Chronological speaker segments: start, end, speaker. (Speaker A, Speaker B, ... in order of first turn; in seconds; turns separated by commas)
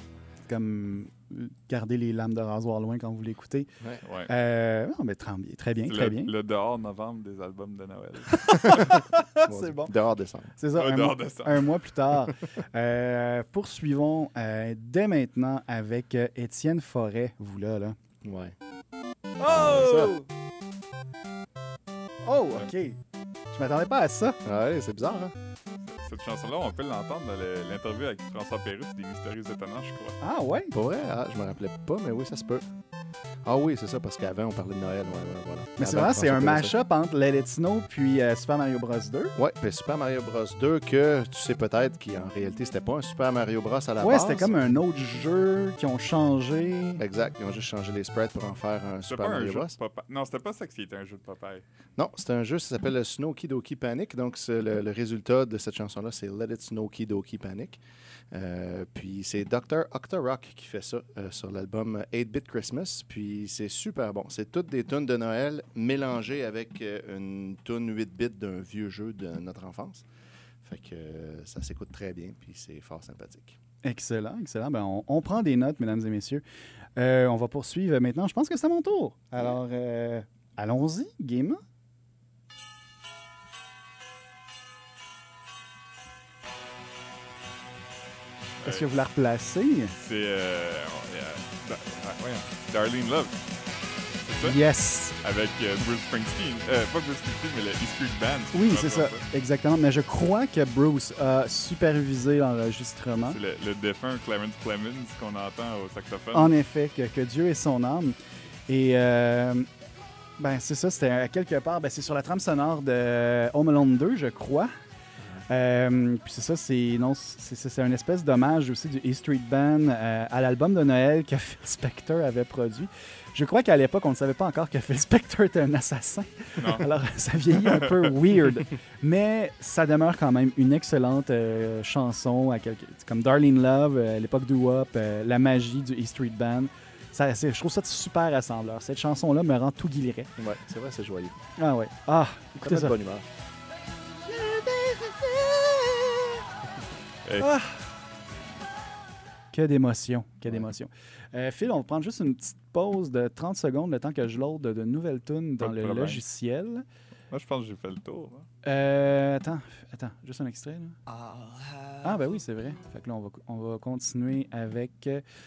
Speaker A: 0.5-3.7, Speaker B: 4.0-4.3, Speaker A: 4.3-6.3, Speaker B: 5.8-8.9, Speaker A: 8.5-9.9, Speaker C: 9.4-10.5, Speaker A: 10.6-18.0, Speaker B: 10.7-11.7, Speaker C: 18.2-18.6, Speaker A: 19.4-20.3, Speaker C: 19.4-20.2, Speaker A: 22.2-23.0, Speaker A: 23.5-24.4, Speaker C: 24.4-25.3, Speaker B: 25.8-30.2, Speaker A: 30.2-30.7, Speaker C: 30.7-32.6, Speaker C: 33.4-36.7, Speaker A: 35.8-39.3, Speaker C: 39.4-44.5, Speaker A: 44.0-47.0, Speaker C: 47.0-49.8, Speaker B: 49.1-51.6, Speaker C: 52.0-70.0, Speaker C: 70.6-73.6, Speaker A: 73.8-76.4, Speaker A: 77.0-81.6, Speaker B: 88.6-88.9, Speaker A: 88.6-89.9, Speaker B: 90.0-93.4, Speaker B: 94.2-94.6, Speaker A: 94.4-95.1, Speaker B: 95.2-99.2, Speaker A: 98.5-103.4, Speaker B: 103.2-106.5, Speaker A: 106.3-108.2, Speaker A: 108.7-109.7, Speaker A: 110.4-114.7, Speaker A: 115.5-140.3, Speaker B: 126.6-126.9, Speaker B: 127.7-127.9, Speaker C: 140.4-141.3, Speaker A: 141.6-143.0, Speaker C: 142.6-143.3, Speaker A: 144.2-146.3, Speaker B: 147.2-147.5, Speaker A: 147.4-147.8, Speaker A: 149.5-156.8, Speaker B: 155.6-156.2, Speaker B: 157.3-158.5, Speaker A: 158.6-161.0, Speaker A: 162.0-165.2